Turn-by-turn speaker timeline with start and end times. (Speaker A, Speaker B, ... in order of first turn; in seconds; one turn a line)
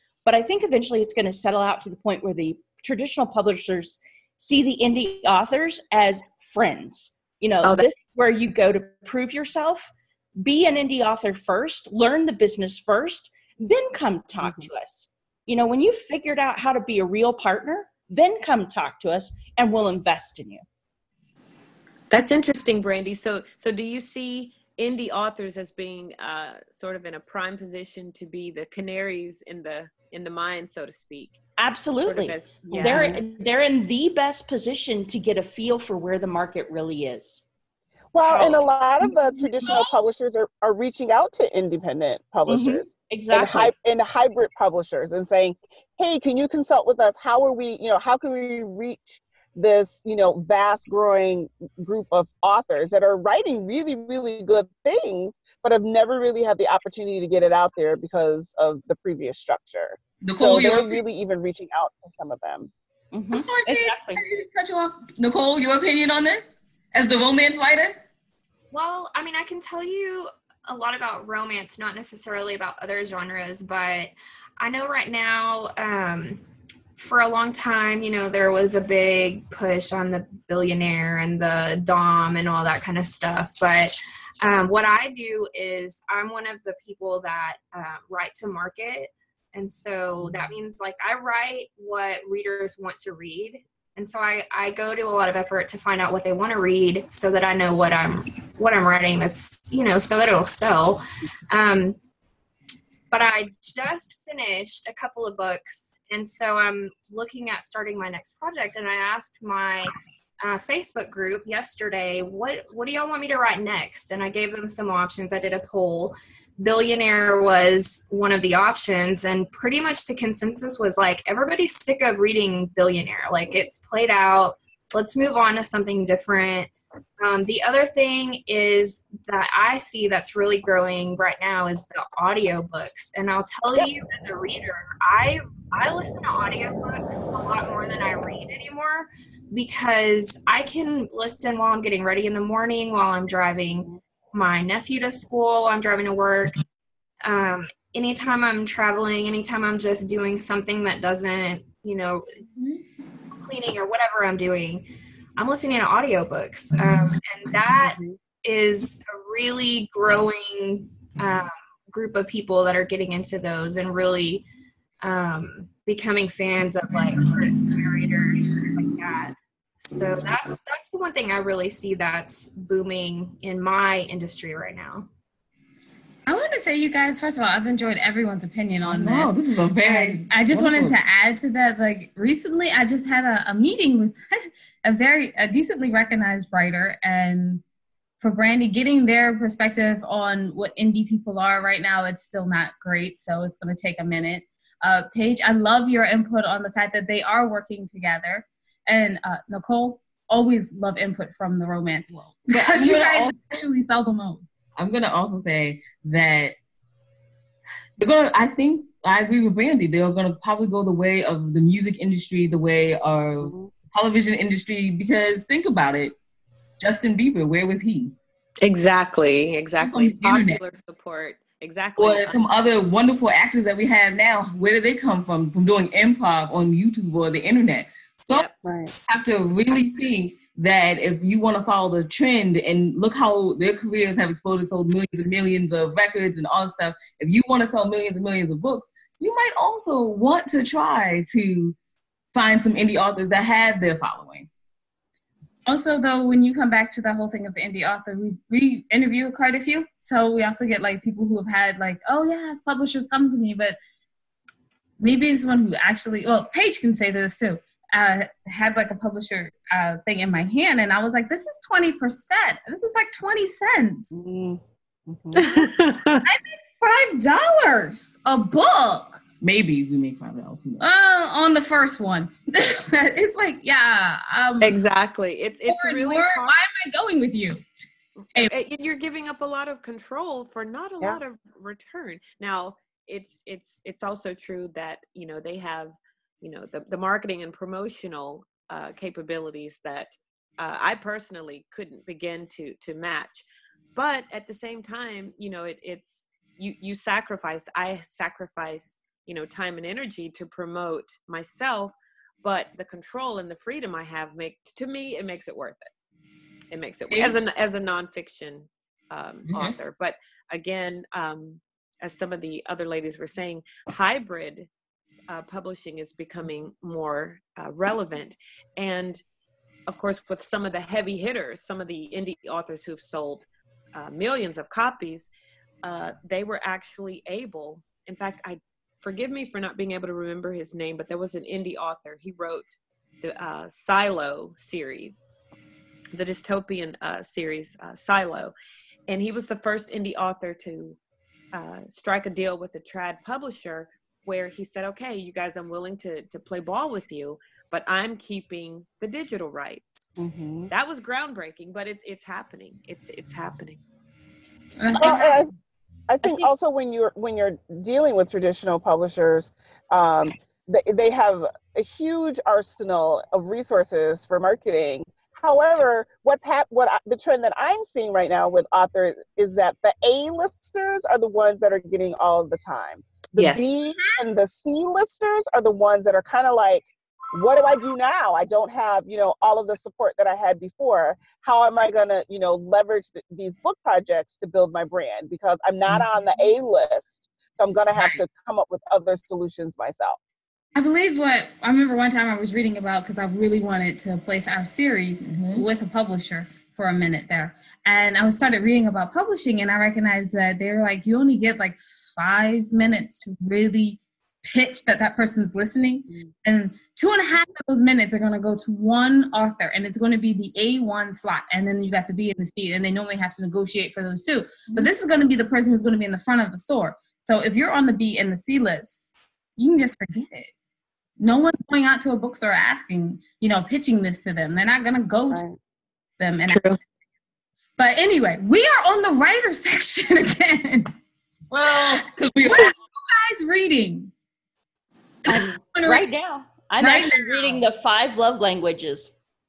Speaker A: 0.2-20.6
Speaker B: 7.6-7.9
Speaker B: 22.1-31.4
Speaker A: 31.6-37.4
Speaker B: 32.0-33.2
Speaker C: 32.7-33.2
Speaker C: 38.1-62.7
Speaker B: 38.3-38.6
Speaker A: 42.5-43.7
Speaker D: 60.2-61.0
Speaker A: 63.1-64.2
Speaker E: 63.3-65.0
Speaker D: 63.5-63.8
Speaker D: 64.9-68.0
Speaker F: 68.7-76.4
Speaker F: 77.0-102.0
Speaker C: 90.2-90.5
Speaker F: 103.1-146.6
Speaker F: 147.2-152.4
Speaker F: 153.3-164.4
Speaker C: 157.8-158.1
Speaker F: 165.0-175.1
Speaker E: 176.3-187.6
Speaker D: 178.8-181.0
Speaker E: 188.2-204.5
Speaker D: 202.1-203.6
Speaker D: 204.8-206.5
Speaker D: 208.0-216.1
Speaker C: 213.4-213.7
Speaker D: 216.8-218.1
Speaker B: 218.6-222.4
Speaker D: 219.8-220.6
Speaker D: 222.0-228.4
Speaker C: 228.6-228.9
Speaker D: 229.1-241.8
Speaker D: 242.3-244.5
Speaker E: 245.7-253.8
Speaker E: 255.0-264.1
Speaker C: 264.1-265.5
Speaker B: 265.4-266.2
Speaker E: 266.2-269.2
Speaker D: 269.4-270.8
Speaker E: 270.8-274.8
Speaker B: 274.6-276.6
Speaker E: 275.7-277.6
Speaker B: 278.3-305.9
Speaker B: 306.7-314.7
Speaker D: 309.5-309.7
Speaker B: 315.3-319.2
Speaker B: 319.9-325.3
Speaker B: 325.8-335.3
Speaker B: 336.1-338.5
Speaker B: 339.1-341.0
Speaker B: 341.5-350.1
Speaker C: 350.2-350.7
Speaker B: 350.7-353.8
Speaker E: 354.8-355.4
Speaker A: 354.9-355.4
Speaker C: 355.0-355.5
Speaker C: 356.1-390.2
Speaker B: 373.4-373.7
Speaker D: 387.9-388.2
Speaker E: 390.7-420.5
Speaker D: 395.2-395.6
Speaker E: 421.2-425.4
Speaker C: 425.3-425.6
Speaker E: 426.2-426.8
Speaker B: 426.5-426.8
Speaker E: 427.8-430.9
Speaker D: 431.5-432.7
Speaker E: 431.7-434.1
Speaker E: 435.2-436.0
Speaker A: 435.8-439.1
Speaker E: 436.8-437.6